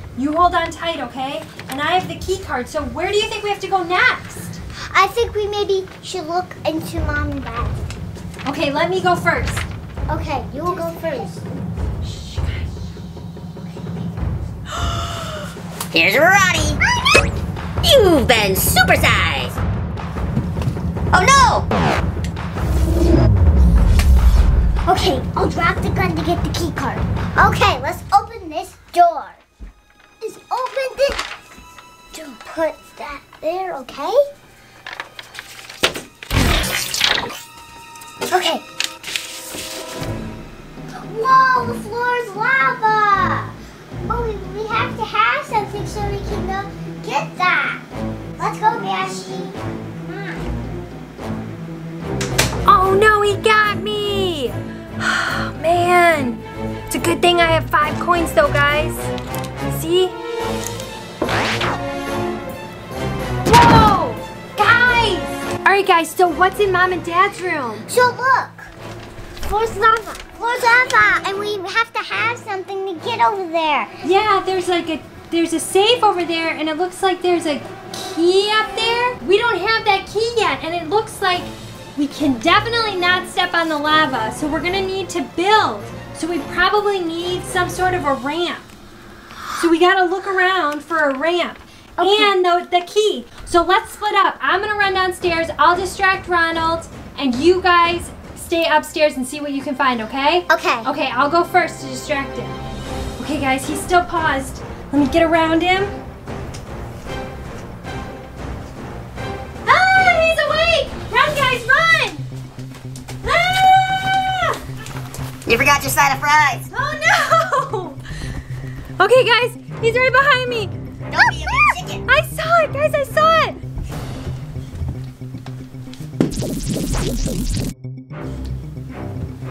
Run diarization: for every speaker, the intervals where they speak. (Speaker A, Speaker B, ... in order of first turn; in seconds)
Speaker A: 0.1-4.6, 8.4-9.7, 10.7-11.2, 12.0-12.6, 38.3-38.6, 52.6-59.1, 59.7-60.1, 63.5-67.8, 74.0-88.6, 89.5-102.6, 103.2-105.9, 109.6-112.2, 113.2-114.6, 116.7-118.0, 119.0-120.7, 122.1-123.6
Speaker B: 4.9-7.9, 10.1-11.4, 24.9-29.4, 30.2-31.2, 32.1-34.2, 41.0-43.5, 44.0-47.9, 48.4-50.5, 67.9-68.7, 69.4-73.9, 92.0-92.3, 100.5-100.9
Speaker C: 15.9-16.8, 17.8-19.6, 21.1-21.7, 115.5-116.7, 121.1-122.0